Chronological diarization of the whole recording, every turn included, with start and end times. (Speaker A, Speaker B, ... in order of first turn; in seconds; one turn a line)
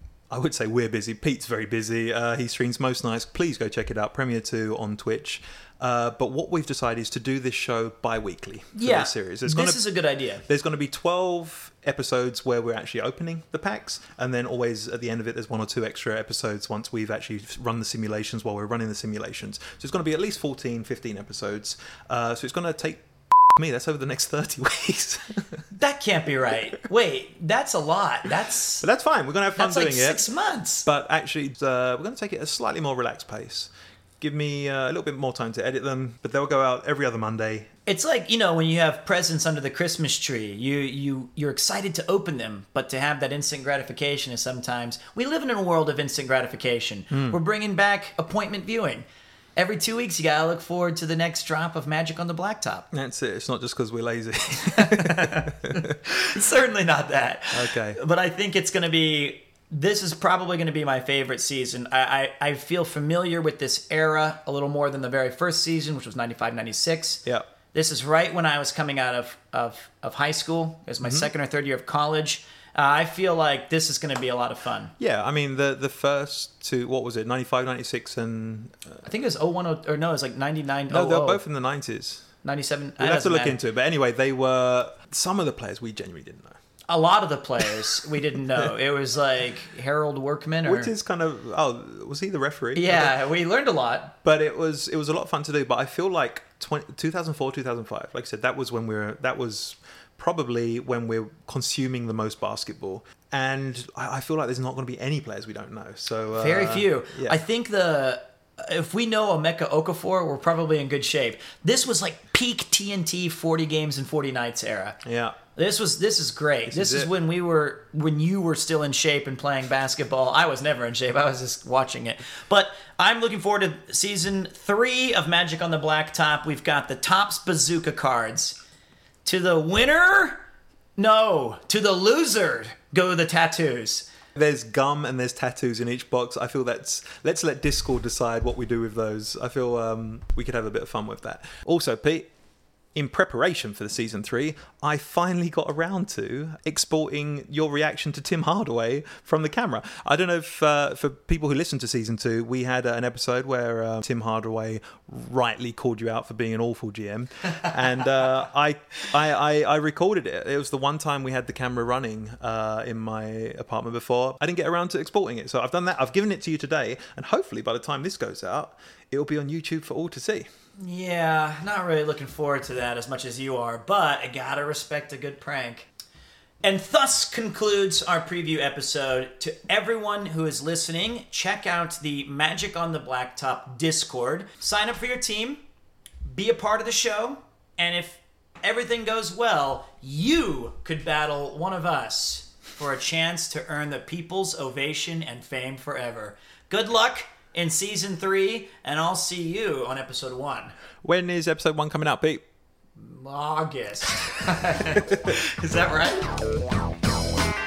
Speaker A: 0.3-9.8
Speaker B: 8.7-10.4
Speaker A: 10.4-25.4
Speaker B: 25.7-28.9
Speaker A: 28.8-30.2
Speaker B: 29.6-30.9
Speaker A: 30.8-33.7
Speaker A: 34.2-37.7
Speaker B: 37.9-49.0
Speaker A: 47.1-47.4
Speaker B: 49.5-52.9
Speaker A: 52.9-55.8
Speaker B: 54.8-67.2
Speaker A: 57.5-58.0
Speaker B: 67.7-74.9
Speaker A: 71.0-71.3
Speaker A: 75.0-79.0
Speaker B: 79.0-81.4
Speaker A: 80.9-82.2
Speaker B: 82.4-83.6
Speaker A: 83.0-86.5
Speaker B: 86.9-90.9
Speaker A: 90.6-93.2
Speaker B: 92.8-94.1
Speaker A: 94.2-107.4
Speaker B: 106.3-115.0
Speaker A: 115.0-115.3
Speaker B: 115.5-128.6
Speaker A: 116.7-117.1
Speaker B: 129.2-130.4
Speaker B: 131.0-134.1
Speaker A: 134.3-142.3
Speaker A: 142.9-170.5
Speaker B: 170.8-175.9
Speaker B: 176.6-185.6
Speaker B: 186.2-200.7
Speaker A: 201.0-202.4
Speaker B: 203.0-206.3